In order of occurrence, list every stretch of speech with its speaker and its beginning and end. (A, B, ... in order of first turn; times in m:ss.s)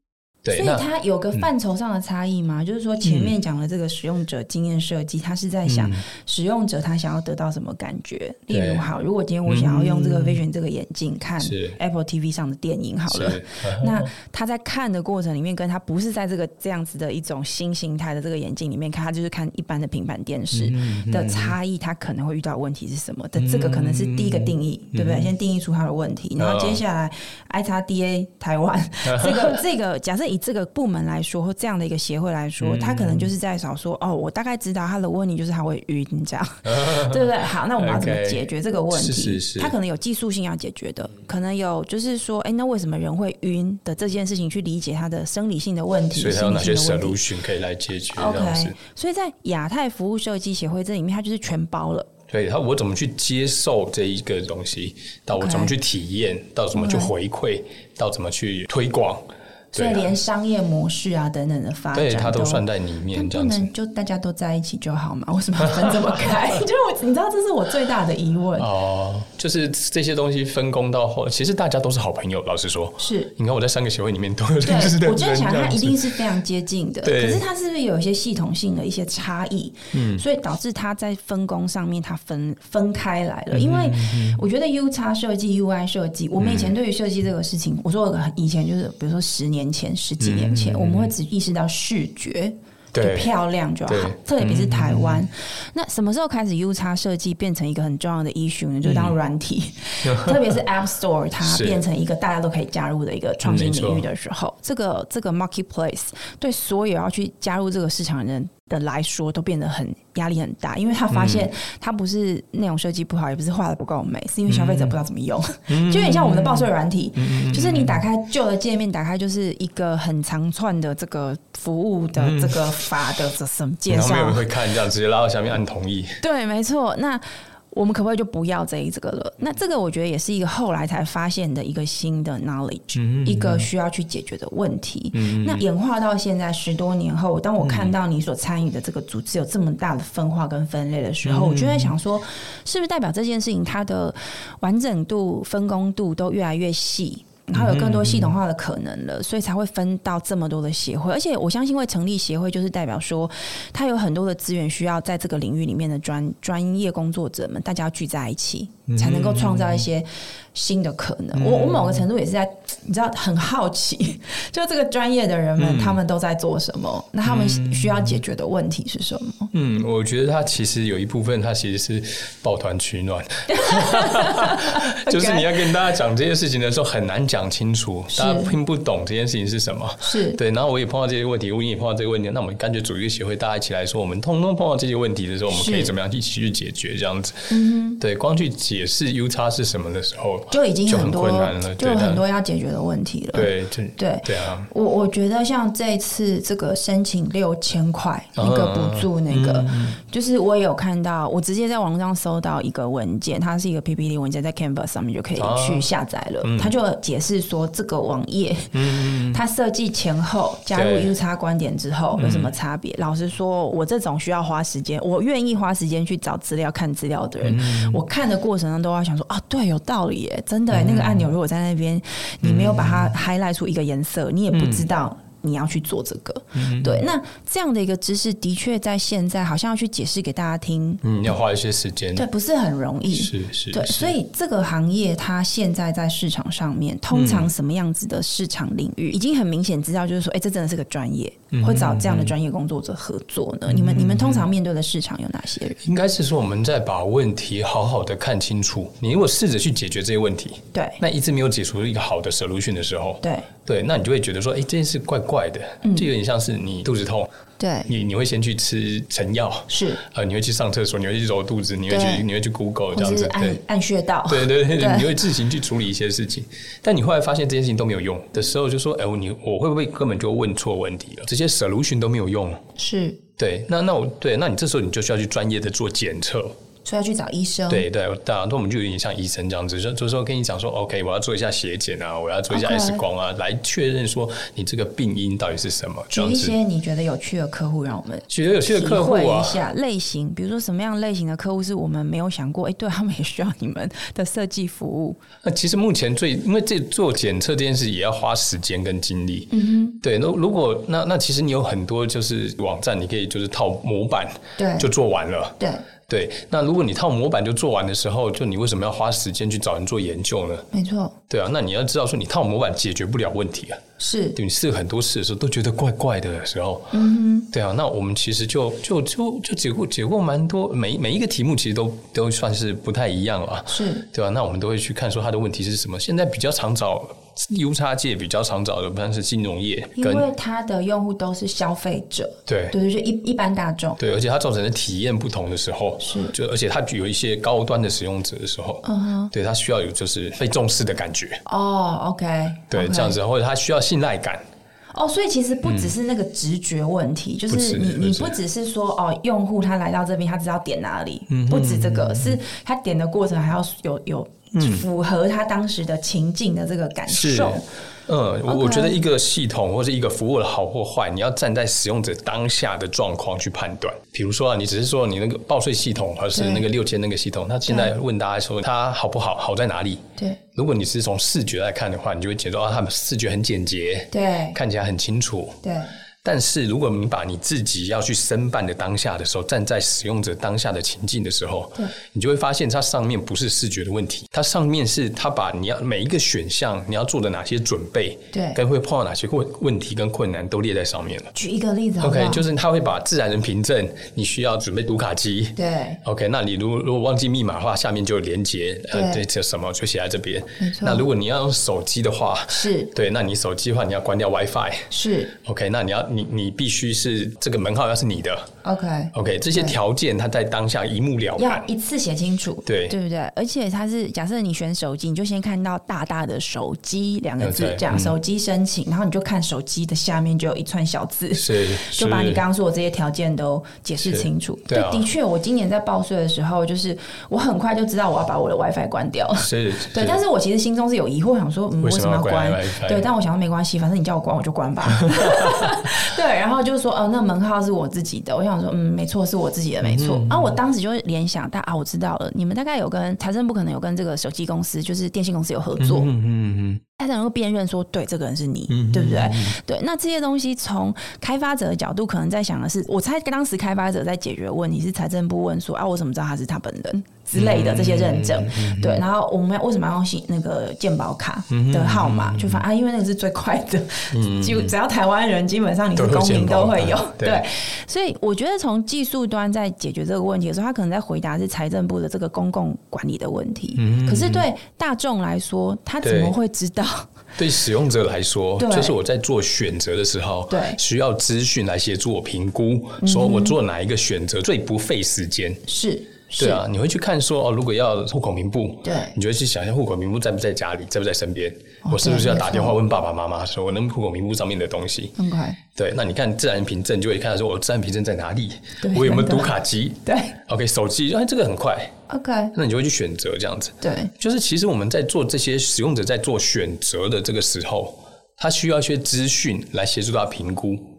0:00.4-0:01.4 A
0:00.5-0:47.2 B
0:03.0-0:03.3 A
0:05.6-0:06.0 A
0:08.5-0:08.9 A
0:09.4-0:10.4 A
0:11.4-0:11.8 A
0:13.1-0:14.1 A
0:20.5-0:21.6 A
0:23.4-0:25.3 A
0:26.4-0:26.8 A
0:29.0-0:29.6 A
0:32.6-0:33.3 A
0:36.6-0:39.8 A
0:46.1-0:48.8 A
0:48.1-0:52.1 B
0:52.3-1:00.1 A
0:55.4-0:55.7 B
0:56.7-0:57.1 B
0:59.7-1:08.7 B
1:01.9-1:03.7 A
1:05.6-1:06.6 A
1:08.6-1:16.2 A
1:13.0-1:13.3 B
1:14.6-2:04.5 B
1:17.0-1:17.4 A
1:19.9-1:20.2 A
1:23.5-1:24.4 A
1:26.4-1:26.8 A
1:30.2-1:31.1 A
1:32.9-1:33.3 A
1:33.9-1:35.2 A
1:38.8-1:39.2 A
1:40.0-1:40.6 A
1:41.4-1:41.8 A
1:43.4-1:44.0 A
1:51.1-1:51.5 A
1:54.5-1:54.9 A
1:55.7-1:58.0 A
2:02.2-2:02.8 A
2:03.9-2:06.2 A
2:06.2-2:49.5 B
2:12.9-2:13.7 A
2:15.1-2:15.6 A
2:17.6-2:17.9 A
2:21.2-2:21.9 A
2:27.5-2:28.4 A
2:38.9-2:39.8 A
2:41.3-2:42.1 A
2:45.6-2:46.0 A
2:47.2-2:48.2 A
2:49.5-3:12.2 A
2:53.5-2:55.7 B
2:58.1-2:58.5 B
3:00.0-3:00.4 B
3:05.5-3:05.9 B
3:07.5-3:08.0 B
3:10.5-3:51.0 B
3:13.3-3:14.7 A
3:18.4-3:20.0 A
3:25.4-3:25.9 A
3:26.4-3:26.8 A
3:28.7-3:29.4 A
3:30.7-3:31.1 A
3:32.2-3:32.5 A
3:37.4-3:38.0 A
3:40.7-3:41.3 A
3:42.4-3:43.1 A
3:44.5-3:44.8 A
3:46.5-3:47.0 A
3:51.0-3:52.3 A
3:52.1-4:05.8 B
3:53.1-3:54.2 A
3:57.1-3:57.5 A
4:01.5-4:02.3 A
4:03.7-4:04.5 A
4:05.8-4:17.3 A
4:10.7-4:11.0 B
4:13.2-4:13.5 B
4:17.6-4:17.9 B
4:17.9-4:23.6 A
4:19.7-4:20.0 B
4:21.9-4:22.3 B
4:22.9-4:25.2 B
4:24.3-4:32.6 A
4:32.8-4:33.2 B
4:33.4-4:36.5 A
4:36.8-4:37.8 B
4:37.7-4:46.5 A
4:42.5-4:43.0 B
4:46.1-4:55.2 B
4:48.3-4:49.6 A
4:55.4-5:10.7 A
4:59.5-5:00.0 B
5:04.6-5:04.9 B
5:10.7-5:11.1 B
5:11.3-5:13.8 A
5:14.0-5:14.4 B
5:14.3-5:17.0 A
5:16.9-5:17.5 B
5:17.5-5:30.3 A
5:23.7-5:24.0 B
5:30.0-5:34.0 B
5:32.5-5:32.7 A
5:34.0-5:41.4 A
5:36.0-5:36.3 B
5:38.8-5:39.3 B
5:41.4-5:43.2 B
5:42.7-5:44.4 A
5:44.9-5:57.6 B
5:45.6-5:45.9 A
5:47.5-5:48.3 A
5:51.3-5:52.4 A
5:54.5-5:54.8 A
5:57.1-6:15.6 A
5:58.5-5:59.0 B
6:06.3-6:06.6 B
6:14.1-6:14.6 B
6:15.6-6:15.9 B
6:16.2-6:31.3 A
6:28.3-6:28.6 B
6:31.3-6:32.4 B
6:32.0-6:48.5 A
6:35.6-6:36.0 B
6:38.9-6:39.2 B
6:40.6-6:41.0 B
6:42.5-6:42.9 B
6:44.9-6:45.3 B
6:48.6-6:49.8 B
6:49.1-6:51.7 A
6:51.4-7:26.1 B
6:52.6-6:52.9 A
6:57.4-6:58.2 A
7:01.3-7:02.4 A
7:04.0-7:05.1 A
7:09.4-7:10.2 A
7:11.8-7:13.1 A
7:14.9-7:15.9 A
7:19.8-7:20.6 A
7:25.8-7:26.8 A
7:27.0-7:57.1 B
7:28.7-7:29.6 A
7:37.3-7:39.0 A
7:41.5-7:42.6 A
7:44.1-7:44.7 A
7:45.9-7:47.4 A
7:53.8-7:54.5 A
7:56.0-7:56.3 A
7:57.4-8:05.6 A
7:58.6-7:59.0 B
8:00.5-8:00.8 B
8:03.0-8:03.6 B
8:05.7-8:06.6 B
8:06.4-8:15.1 A
8:08.8-8:09.1 B
8:11.8-8:12.8 B
8:15.2-8:15.6 B
8:15.7-8:21.9 A
8:18.8-8:19.5 B
8:20.0-8:20.3 B
8:22.1-8:22.5 B
8:22.5-8:30.8 A
8:23.8-8:24.1 B